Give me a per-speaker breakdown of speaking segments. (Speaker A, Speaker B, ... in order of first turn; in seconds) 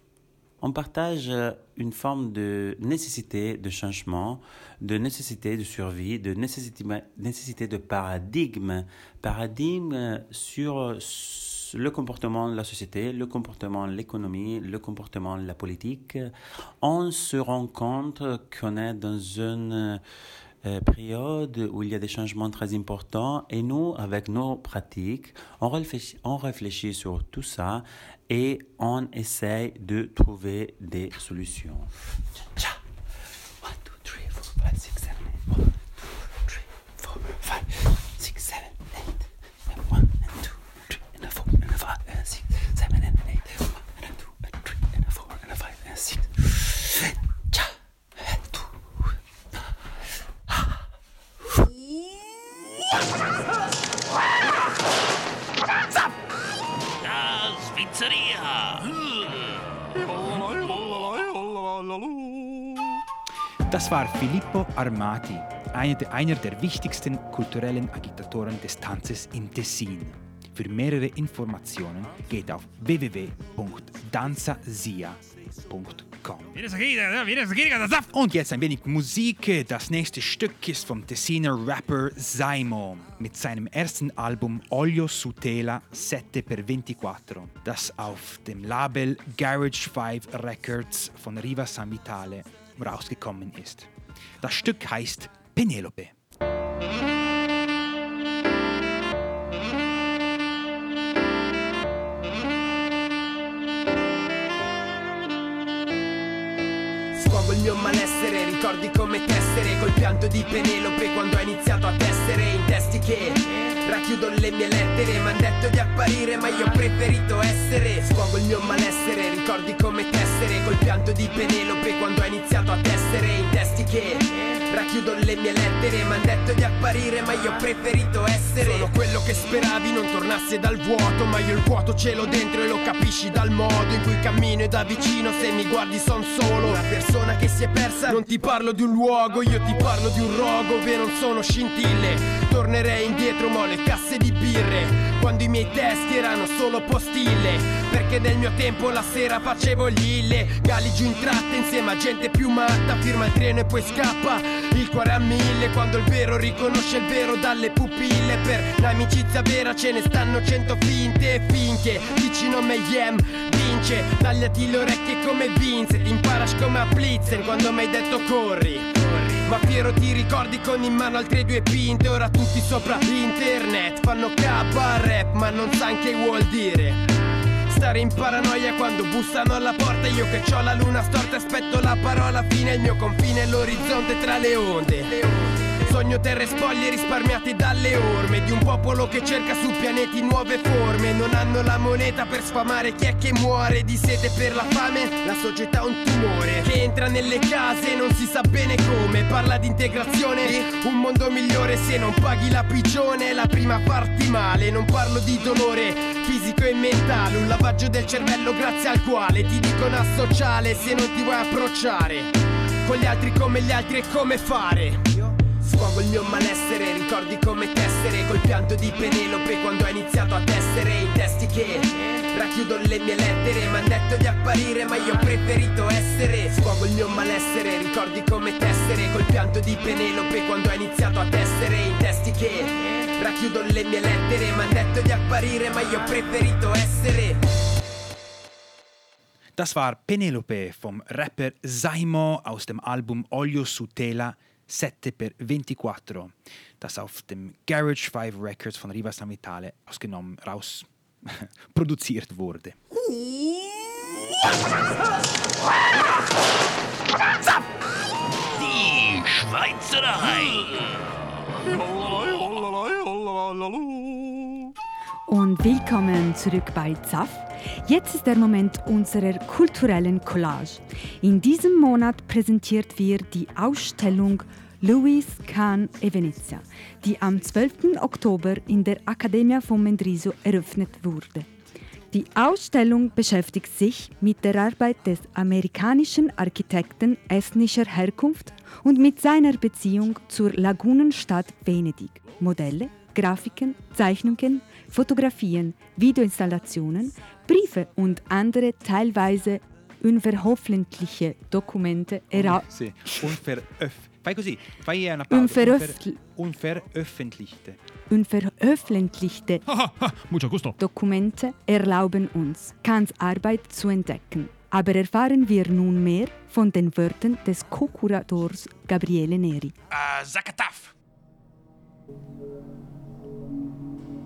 Speaker A: 0.6-20.0, 20.6-31.9, 33.6-48.7
Speaker B: 57.0-59.0, 60.4-60.8, 76.5-78.1, 258.6-260.7, 309.7-310.8, 319.9-320.9
Speaker C: 63.7-76.6, 78.0-93.9, 94.4-96.2, 239.6-252.8, 302.3-307.8
Speaker D: 107.1-177.0, 177.7-212.3, 212.8-237.4
Speaker E: 265.3-281.5, 282.1-302.7, 305.3-306.2, 308.1-309.6, 310.8-319.8